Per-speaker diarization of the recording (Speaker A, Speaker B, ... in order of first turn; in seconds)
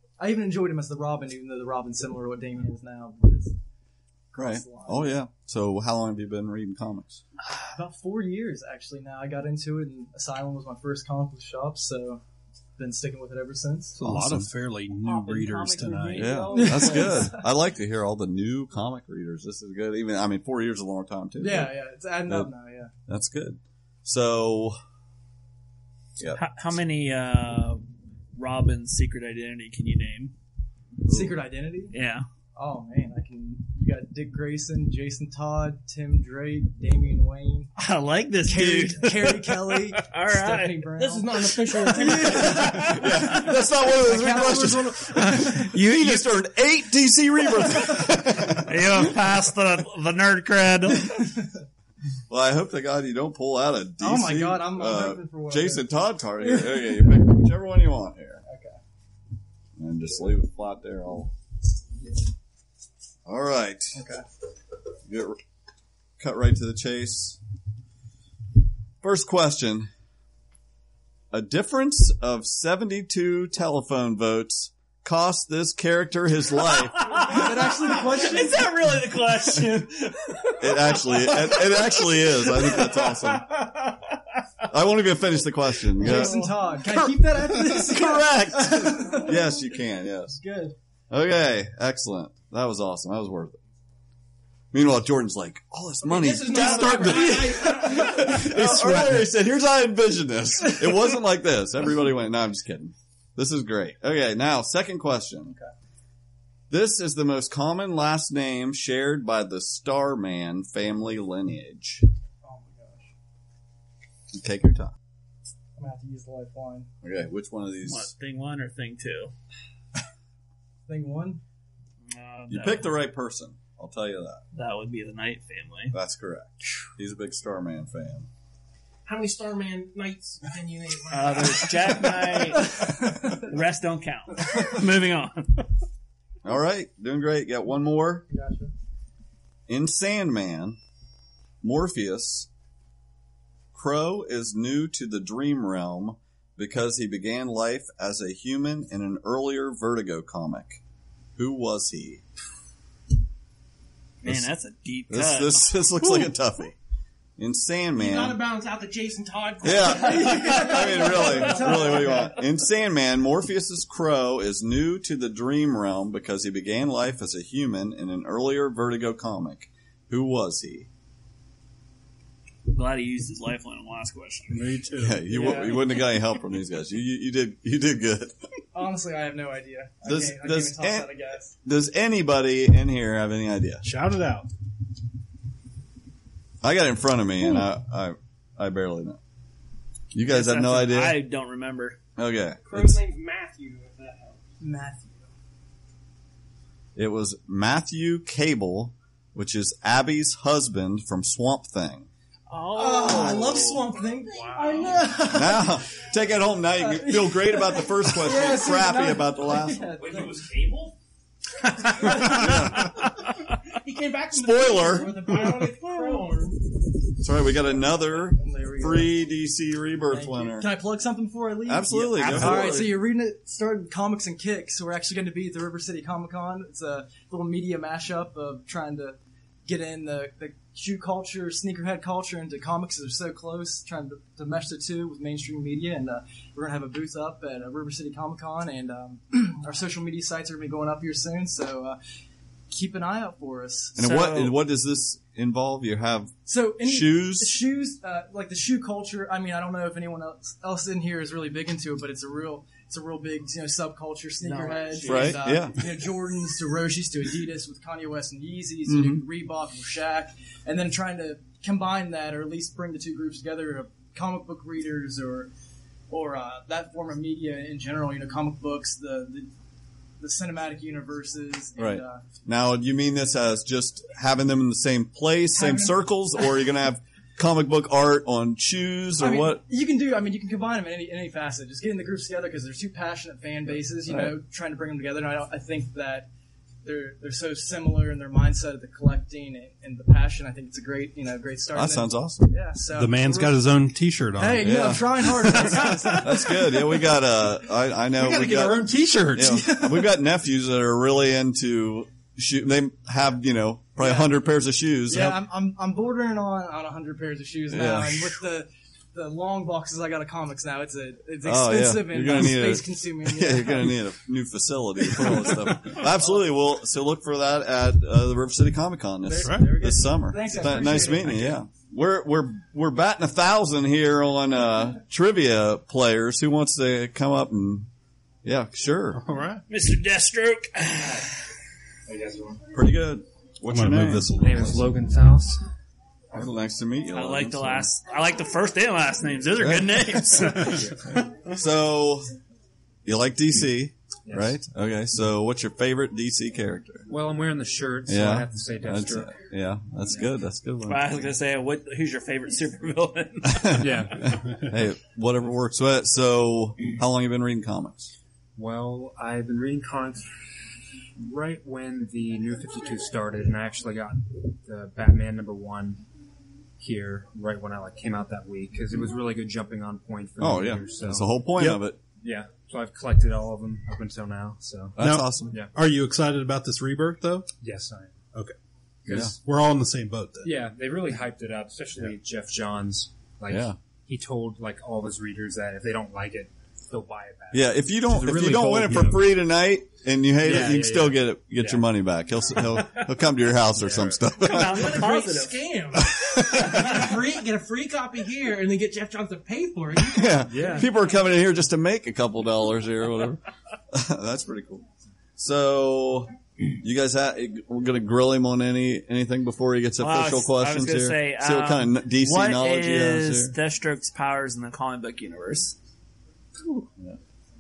Speaker A: 0.2-3.6, 4.3-5.2, 7.4-12.2, 12.8-14.0, 16.4-17.4, 21.4-22.9, 31.1-31.9, 32.5-37.7, 38.4-45.7, 47.7-48.2, 50.9-51.5, 54.0-57.1, 58.5-58.8, 63.9-64.2, 77.1-78.7, 86.0-89.6, 90.4-90.8, 96.1-99.0, 112.4-113.0, 115.8-116.9, 120.9-121.4, 159.7-162.4, 175.4-175.8, 178.7-181.5, 194.6-195.2, 202.7-205.8, 206.8-210.5, 218.2-219.3, 220.1-242.0, 242.7-244.0, 246.5-265.5, 266.1-269.5, 270.2-272.2, 275.6-276.0, 279.2-286.3, 286.8-293.7, 294.4-297.0, 299.4-300.2, 304.0-304.4, 305.1-314.1, 315.2-315.7, 319.2-321.6
Speaker B: 4.3-7.2, 14.0-14.5, 16.1-21.7, 22.3-22.5, 23.1-24.8, 26.2-26.5, 31.1-31.4, 42.5-49.2, 52.3-58.4, 59.8-61.3, 63.3-64.0, 65.1-65.4, 66.2-67.4, 69.0-69.9, 71.3-77.2, 80.6-83.5, 84.7-86.4, 89.0-90.4, 91.1-93.6, 94.7-105.6, 106.7-112.1, 114.3-115.0, 117.0-118.1, 122.5-124.4, 125.9-128.3, 136.4-138.3, 139.7-140.8, 141.6-142.5, 143.7-150.8, 151.4-152.2, 154.2-154.5, 155.1-156.8, 157.4-158.4, 159.6-170.9, 175.0-178.5, 180.0-181.1, 181.7-183.9, 186.6-189.2, 190.1-191.2, 192.2-193.0, 196.9-202.1, 205.3-210.0, 212.1-213.0, 214.3-215.3, 217.2-220.7, 221.7-223.0, 244.0-247.6, 255.0-255.9, 258.9-259.3, 271.8-279.6, 284.1-284.3, 291.7-292.5, 294.6-305.4, 307.7-308.4, 311.4-327.9, 328.4-329.2, 332.7-334.9, 336.3-337.9, 339.6-340.8, 341.5-342.3, 343.1-347.1, 348.1-351.1, 353.4-358.1, 370.4-372.0, 375.0-375.6, 383.5-383.8, 387.5-395.0, 396.1-397.0, 400.1-404.9, 405.4-413.6
Speaker C: 14.0-16.4, 174.5-175.4, 183.8-184.5, 292.9-296.2, 298.2-299.6, 319.3-319.8, 329.2-329.6, 333.7-334.6, 375.0-377.5, 379.1-380.5
Speaker D: 15.0-17.3, 26.4-27.8, 28.4-30.3, 31.9-32.3, 37.8-41.0, 42.0-43.5, 45.0-46.3, 48.5-51.2, 76.7-84.0, 86.1-86.6, 88.1-88.6, 96.5-98.4, 117.8-119.3, 122.1-123.0, 124.5-126.0, 131.1-135.7, 154.2-155.9, 172.7-174.8, 175.3-176.1, 190.2-192.0, 202.5-205.0, 210.1-210.9, 212.0-212.9, 222.1-223.0, 244.0-244.6, 254.4-255.4, 329.7-331.3, 337.1-341.0, 350.9-353.8, 394.4-395.6, 410.0-415.8
Speaker E: 41.0-42.5, 96.0-98.5, 129.1-132.4, 138.3-138.7, 157.9-161.3, 192.7-194.4, 213.8-216.6, 394.6-400.5
Speaker F: 332.1-332.6, 334.3-335.6, 344.3-344.6, 347.1-349.4, 353.8-354.3, 358.6-360.3, 361.2-366.0, 366.8-375.7, 377.6-378.2, 379.1-379.3, 380.4-389.4, 390.4-391.9, 393.8-394.2, 400.5-400.9